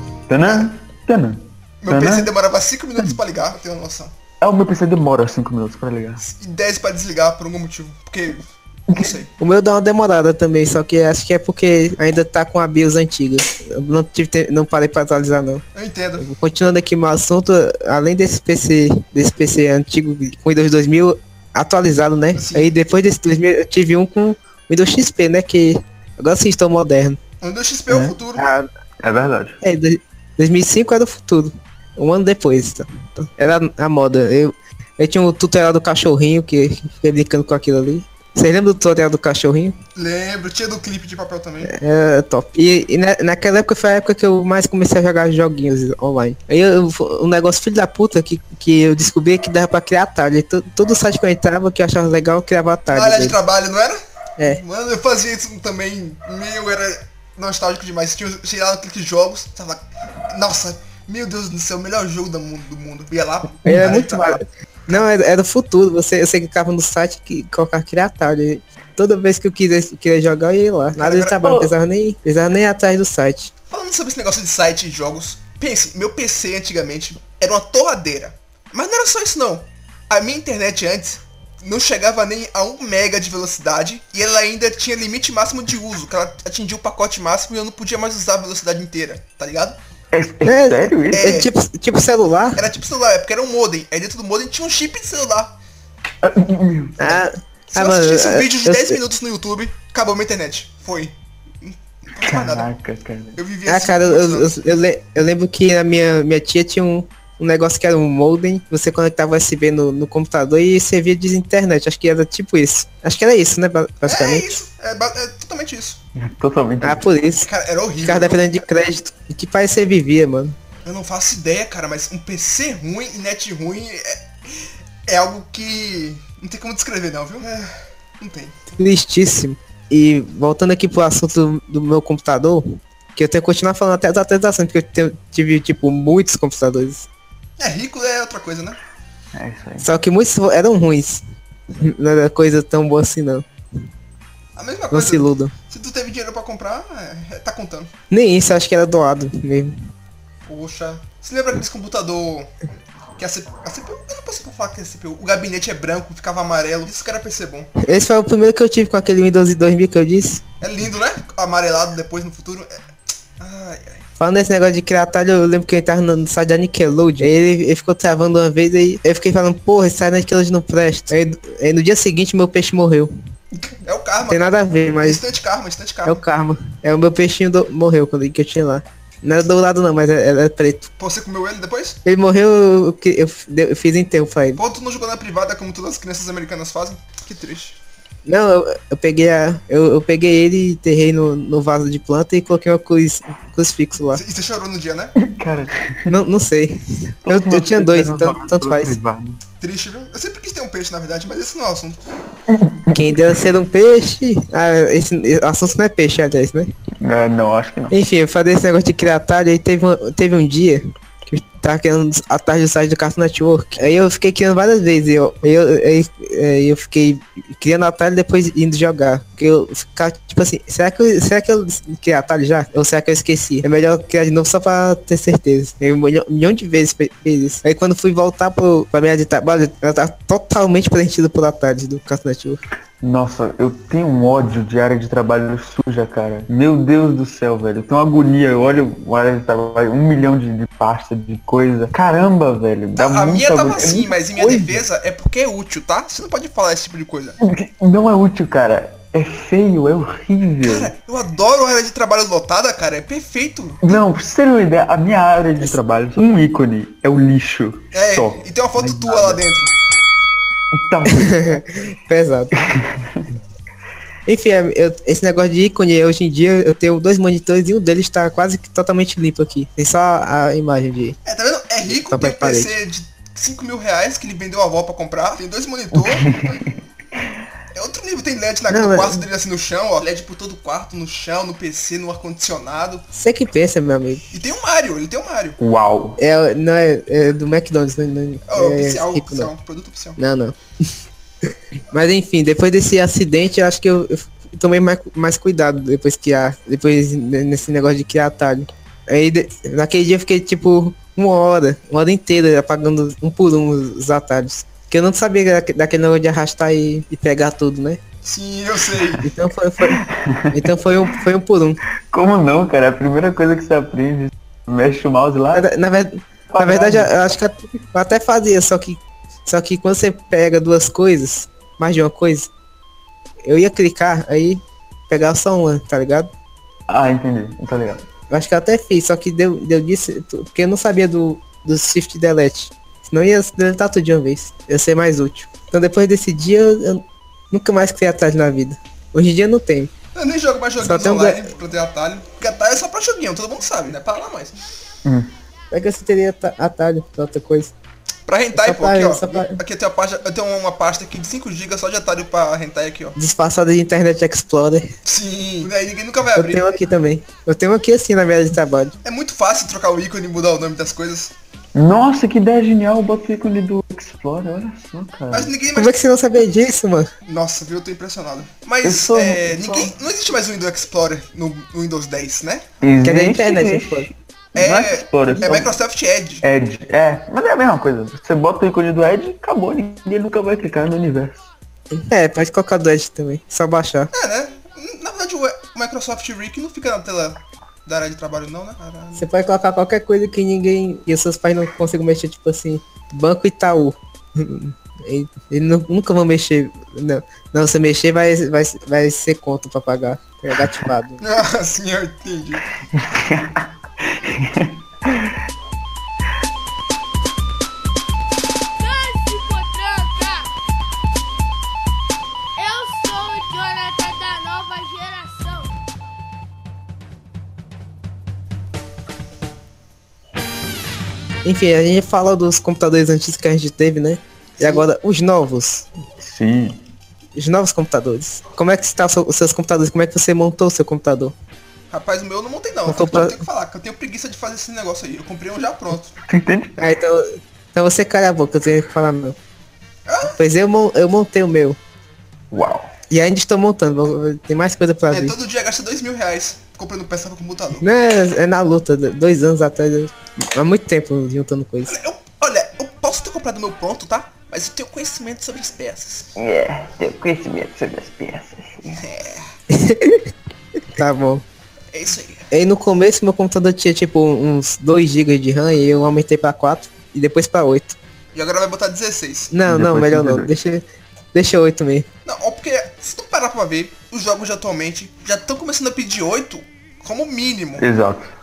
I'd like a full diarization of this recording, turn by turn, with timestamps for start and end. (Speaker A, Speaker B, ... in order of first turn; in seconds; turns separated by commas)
Speaker A: 0.3-2.3, Speaker B: 0.4-0.7, Speaker B: 1.8-4.1, Speaker A: 4.4-6.2, Speaker B: 6.2-9.3, Speaker A: 8.9-9.2, Speaker C: 9.4-15.6, Speaker B: 15.7-16.2, Speaker C: 16.2-27.2, Speaker B: 22.4-22.7, Speaker B: 27.4-28.5, Speaker A: 27.9-28.1, Speaker C: 28.4-28.7, Speaker A: 29.0-29.6, Speaker C: 29.6-39.8, Speaker B: 40.0-41.7, Speaker C: 41.6-53.4, Speaker B: 52.9-64.4, Speaker C: 63.6-73.5, Speaker B: 71.0-71.6, Speaker A: 71.4-71.7, Speaker B: 73.7-89.8, Speaker A: 90.1-91.5, Speaker C: 90.4-92.6, Speaker B: 91.1-91.5, Speaker B: 92.5-95.5, Speaker A: 96.2-97.2, Speaker C: 97.0-99.0, Speaker B: 97.7-102.7, Speaker A: 102.2-103.4, Speaker B: 103.4-104.6, Speaker C: 103.7-114.6, Speaker B: 114.0-116.0, Speaker A: 116.2-117.1, Speaker C: 116.8-117.5, Speaker B: 117.4-118.4, Speaker C: 118.0-120.6, Speaker B: 120.8-128.8, Speaker C: 128.8-132.6, Speaker C: 133.2-137.1, Speaker B: 137.6-138.8, Speaker A: 139.3-139.9, Speaker C: 139.8-141.2, Speaker C: 141.8-143.4, Speaker B: 144.6-147.9, Speaker C: 144.9-145.5, Speaker C: 148.1-149.8, Speaker B: 150.5-152.5, Speaker B: 153.2-157.7, Speaker C: 157.8-160.4, Speaker B: 160.6-162.8, Speaker B: 163.4-164.1, Speaker C: 164.2-173.1, Speaker B: 173.6-176.2, Speaker C: 174.3-175.2, Speaker C: 176.1-180.9, Speaker B: 181.0-182.0, Speaker C: 182.0-184.6, Speaker B: 184.6-187.8, Speaker C: 188.2-194.2, Speaker B: 194.1-195.1, Speaker A: 195.2-196.1, Speaker C: 196.1-198.9, Speaker A: 197.2-199.4, Speaker B: 199.6-202.0, Speaker A: 202.5-203.2, Speaker C: 202.9-206.7, Speaker A: 207.0-207.9, Speaker C: 207.9-232.6, Speaker A: 233.0-244.8, Speaker B: 242.9-247.4, Speaker A: 247.4-250.9, Speaker B: 250.6-254.0, Speaker A: 253.8-259.4, Speaker B: 257.9-259.7, Speaker A: 260.7-261.6, Speaker C: 261.1-262.5, Speaker A: 262.6-263.3, Speaker C: 264.2-271.2, Speaker B: 271.2-276.3, Speaker C: 271.9-272.7, Speaker A: 275.9-277.4, Speaker B: 277.7-283.0, Speaker C: 278.7-279.2, Speaker C: 283.1-284.2, Speaker B: 284.3-285.6, Speaker A: 285.6-286.2, Speaker C: 286.2-289.5, Speaker B: 288.5-290.2, Speaker C: 290.2-290.6, Speaker C: 291.9-308.0, Speaker B: 308.2-309.3, Speaker C: 309.2-311.8, Speaker A: 309.9-310.6, Speaker A: 312.1-315.7, Speaker C: 315.5-322.5, Speaker A: 316.5-317.1, Speaker C: 323.4-326.3, Speaker A: 326.9-328.1, Speaker C: 328.3-339.9, Speaker B: 340.1-344.5, Speaker C: 340.8-341.4, Speaker A: 345.0-345.3, Speaker C: 345.7-347.7, Speaker B: 348.3-353.1, Speaker C: 348.5-349.6, Speaker C: 353.1-354.9, Speaker B: 355.0-356.7, Speaker C: 356.4-358.9, Speaker B: 359.0-361.3, Speaker A: 361.7-365.5, Speaker B: 365.3-365.9, Speaker C: 365.7-367.1, Speaker B: 367.2-372.6, Speaker A: 368.8-369.9, Speaker A: 372.8-375.7, Speaker C: 373.0-374.1, Speaker B: 374.5-376.4, Speaker A: 376.4-381.4, Speaker C: 381.9-384.1, Speaker B: 384.1-389.3, Speaker C: 389.1-401.2, Speaker B: 401.2-402.6, Speaker A: 402.8-405.4, Speaker D: 408.8-410.5, Speaker D: 412.6-415.7, Speaker C: 421.4-425.9, Speaker A: 426.2-426.8, Speaker C: 427.3-431.3, Speaker B: 431.9-436.1, Speaker C: 432.9-433.4, Speaker A: 436.2-436.8, Speaker C: 436.8-439.4, Speaker B: 440.1-440.4, Speaker C: 440.4-441.8, Speaker A: 442.5-442.9, Speaker C: 443.1-445.3, Speaker B: 445.1-447.8, Speaker C: 447.8-451.9, Speaker B: 451.9-456.3, Speaker A: 456.4-459.0, Speaker B: 458.9-459.5, Speaker C: 459.7-460.3, Speaker C: 460.9-461.4, Speaker B: 461.9-462.5, Speaker C: 462.5-468.0, Speaker B: 468.3-469.5, Speaker C: 469.5-470.8, Speaker A: 469.7-470.5, Speaker C: 471.3-472.1, Speaker B: 472.2-477.9, Speaker A: 477.8-478.3